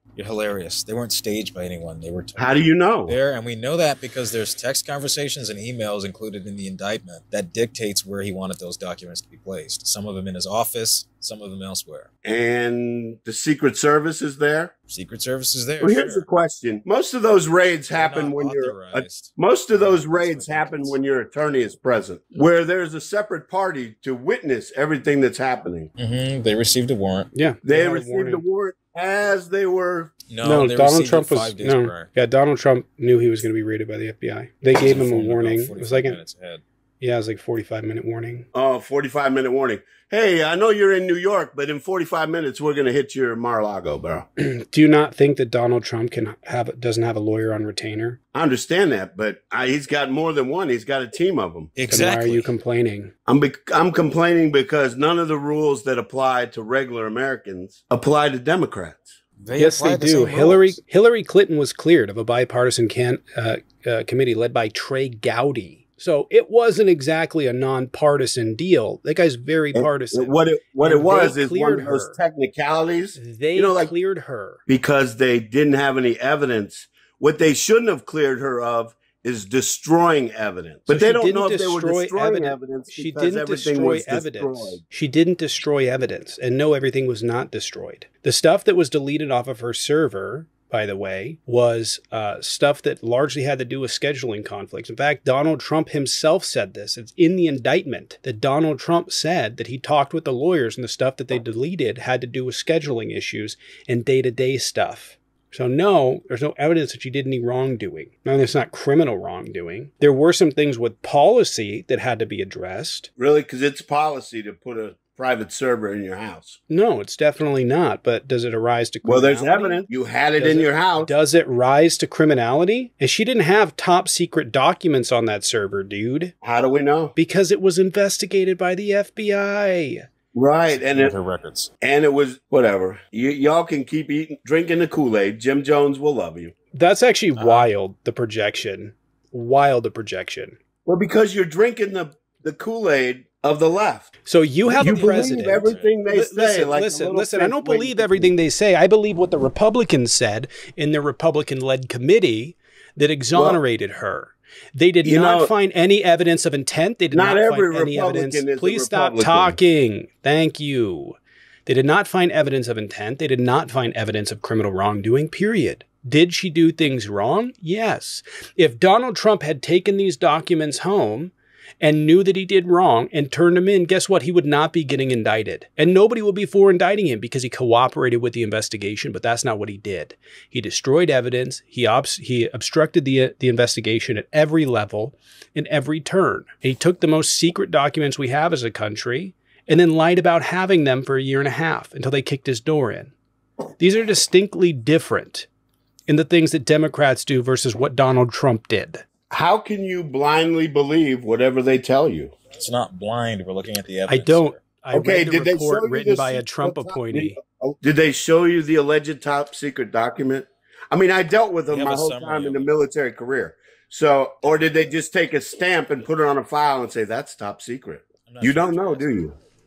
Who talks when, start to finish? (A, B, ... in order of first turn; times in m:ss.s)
0:00.2-0:12.1 A
0:02.4-0:03.2 B
0:12.2-0:14.7 B
0:14.9-0:16.3 A
0:15.8-0:25.9 B
0:17.9-0:21.0 A
0:26.0-0:27.3 A
0:27.3-0:28.4 C
0:27.6-0:30.1 B
0:30.3-0:32.1 A
0:30.4-0:36.2 C
0:34.8-0:36.6 A
0:37.0-0:38.5 C
0:38.5-0:44.3 B
0:44.4-0:48.2 C
0:48.3-0:51.7 B
0:51.8-0:52.5 A
0:51.9-0:53.1 C
0:53.3-0:59.2 B
0:59.4-1:00.8 A
0:59.6-1:12.2 C
1:09.7-1:13.9 B
1:13.2-1:14.6 C
1:14.7-1:24.8 B
1:20.9-1:53.1 C
1:53.2-1:56.6 B
1:56.7-1:59.8 C
1:59.0-2:01.1 B
2:00.4-2:06.4 C
2:06.4-2:07.2 B
2:07.2-2:10.0 C
2:10.3-2:11.1 B
2:10.7-2:11.7 A
2:11.8-2:16.5 B
2:16.7-2:20.6 C
2:17.4-2:17.7 A
2:20.8-2:24.1 B
2:24.2-3:13.1 C
2:24.7-2:26.0 A
2:24.8-2:28.3 B
2:33.3-2:33.6 B
2:35.0-2:35.5 B
2:37.1-2:39.6 B
3:13.8-3:15.5 C
3:16.1-3:19.1 C
3:19.3-3:22.4 B
3:22.6-3:24.6 A
3:24.1-3:27.4 C
3:24.9-3:39.4 B
3:31.7-3:32.7 A
3:38.3-3:39.2 A